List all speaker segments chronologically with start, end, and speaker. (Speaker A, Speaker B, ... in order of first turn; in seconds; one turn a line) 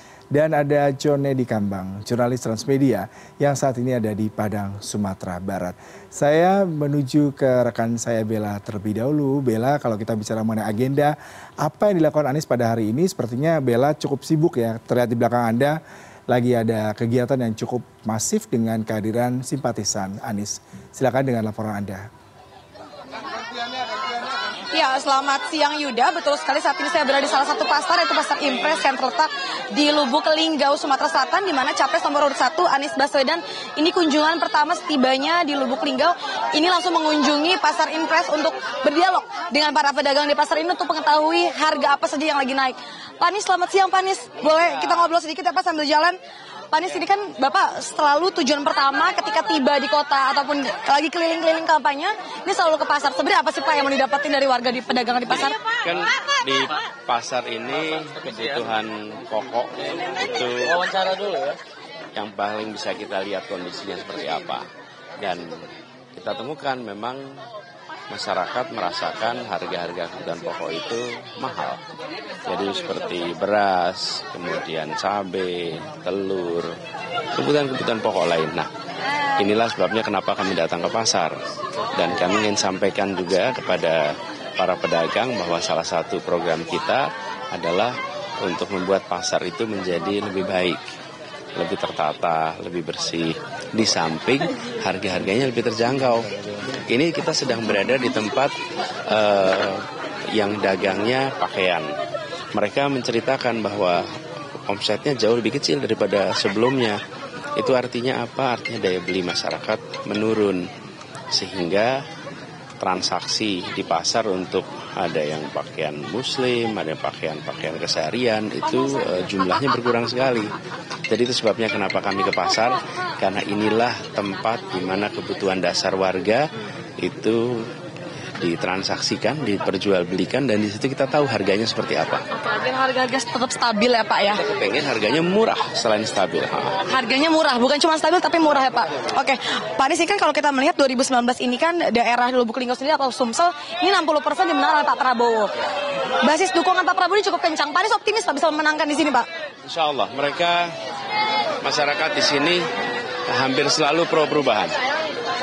Speaker A: 0.3-15.8
Speaker A: 16.3-22.1
Speaker B: 24.7-46.2
Speaker B: 46.7-55.6
Speaker C: 55.4-61.5
Speaker C: 62.1-64.7
Speaker C: 65.2-67.4
Speaker C: 68.1-71.8
Speaker C: 72.5-76.7
Speaker C: 77.4-78.7
Speaker C: 79.4-81.3
Speaker C: 82.0-90.8
Speaker C: 91.6-96.3
Speaker C: 96.9-98.5
Speaker C: 99.1-101.9
Speaker C: 102.5-104.0
Speaker C: 104.7-107.0
Speaker C: 107.6-110.6
Speaker C: 111.3-112.0
Speaker C: 112.8-120.5
Speaker C: 121.1-126.4
Speaker C: 127.0-127.7
Speaker C: 128.4-132.2
Speaker B: 132.4-134.4
Speaker C: 134.4-136.8
Speaker B: 136.9-145.5
Speaker B: 146.2-149.3
Speaker C: 149.7-150.7
Speaker C: 151.6-152.7
Speaker C: 153.3-154.8